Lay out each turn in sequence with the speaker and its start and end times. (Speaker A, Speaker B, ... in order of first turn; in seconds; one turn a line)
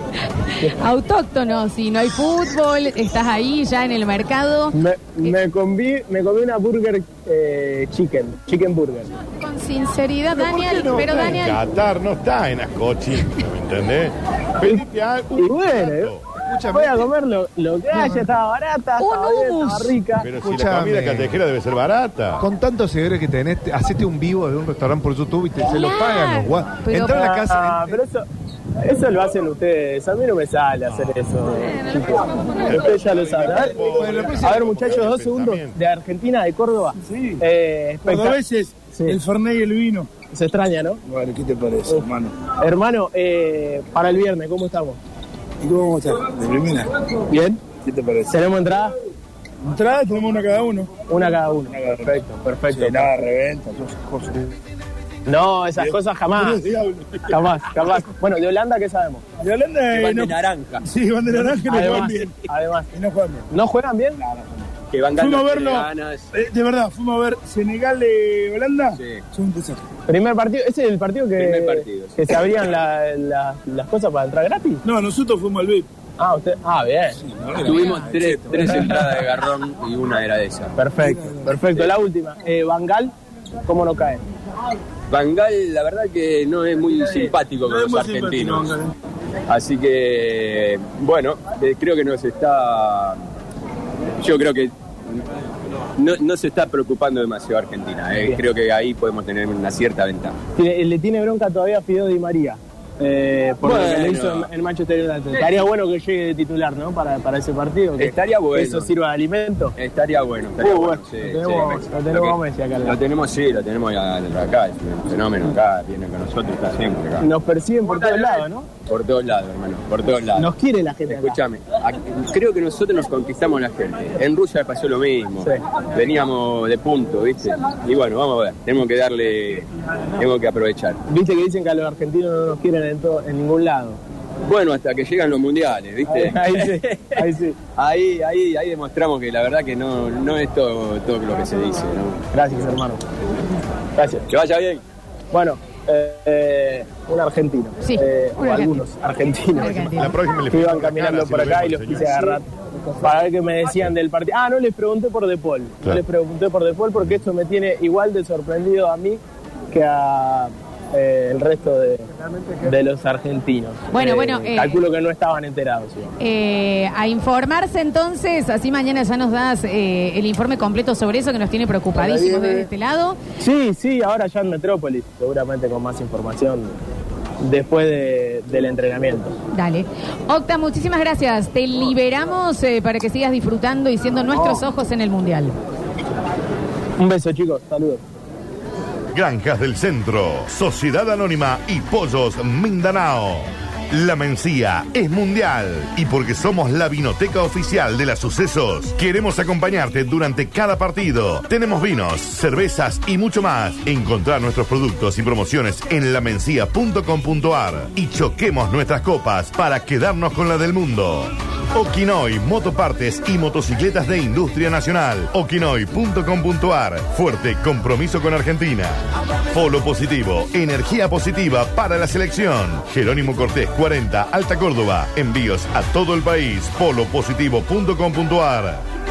Speaker A: 0.6-5.3
Speaker B: 4.7-9.1
Speaker A: 9.4-11.6
Speaker C: 10.3-11.4
Speaker D: 11.3-16.2
Speaker B: 14.6-16.2
Speaker C: 16.4-17.1
Speaker B: 16.7-20.3
Speaker A: 19.0-19.9
Speaker D: 20.2-22.4
Speaker C: 20.4-21.4
Speaker C: 22.4-28.0
Speaker A: 25.6-27.3
Speaker B: 27.1-28.2
Speaker B: 28.8-39.2
Speaker D: 32.7-35.7
Speaker C: 34.0-34.7
Speaker E: 38.0-40.1
Speaker B: 40.3-41.0
Speaker E: 41.1-42.3
Speaker B: 41.9-45.0
Speaker E: 45.6-46.9
Speaker B: 47.3-47.6
Speaker E: 47.8-48.4
Speaker B: 48.3-48.9
Speaker E: 49.6-50.9
Speaker B: 51.1-53.2
Speaker E: 51.7-52.1
Speaker E: 52.7-54.5
Speaker B: 55.2-56.6
Speaker E: 55.8-57.1
Speaker B: 57.3-59.2
Speaker E: 59.4-62.4
Speaker F: 59.9-60.8
Speaker B: 61.6-62.9
Speaker E: 62.9-63.5
Speaker B: 63.5-64.2
Speaker E: 64.2-64.5
Speaker F: 64.9-66.3
Speaker E: 65.1-69.8
Speaker F: 69.0-69.2
Speaker B: 70.1-74.8
Speaker F: 71.4-72.7
Speaker E: 74.8-75.8
Speaker B: 76.2-79.2
Speaker E: 77.5-78.8
Speaker F: 77.6-80.8
Speaker B: 80.8-83.1
Speaker B: 83.7-84.2
Speaker F: 85.1-88.8
Speaker E: 87.7-88.8
Speaker F: 89.5-93.2
Speaker F: 94.2-95.2
Speaker F: 96.0-100.4
Speaker B: 100.5-109.7
Speaker F: 103.6-104.5
Speaker F: 105.3-105.7
Speaker F: 108.0-108.9
Speaker F: 109.8-117.3
Speaker B: 110.6-113.0
Speaker B: 117.2-118.7
Speaker F: 117.8-120.5
Speaker B: 120.3-121.4
Speaker F: 121.1-131.0
Speaker B: 131.1-134.0
Speaker F: 134.4-137.2
Speaker B: 136.1-137.6
Speaker F: 137.8-142.2
Speaker B: 142.3-143.0
Speaker B: 144.0-144.2
Speaker F: 144.3-144.8
Speaker B: 145.3-152.4
Speaker A: 147.8-148.8
Speaker A: 149.5-150.2
Speaker D: 149.9-152.4
Speaker B: 153.0-162.1
Speaker B: 162.6-166.1
Speaker A: 163.9-164.8
Speaker A: 166.2-173.2
Speaker B: 173.4-176.8
Speaker B: 177.4-179.3
Speaker A: 179.5-185.5
Speaker B: 187.0-188.0
Speaker D: 189.1-219.0
Speaker D: 219.5-228.8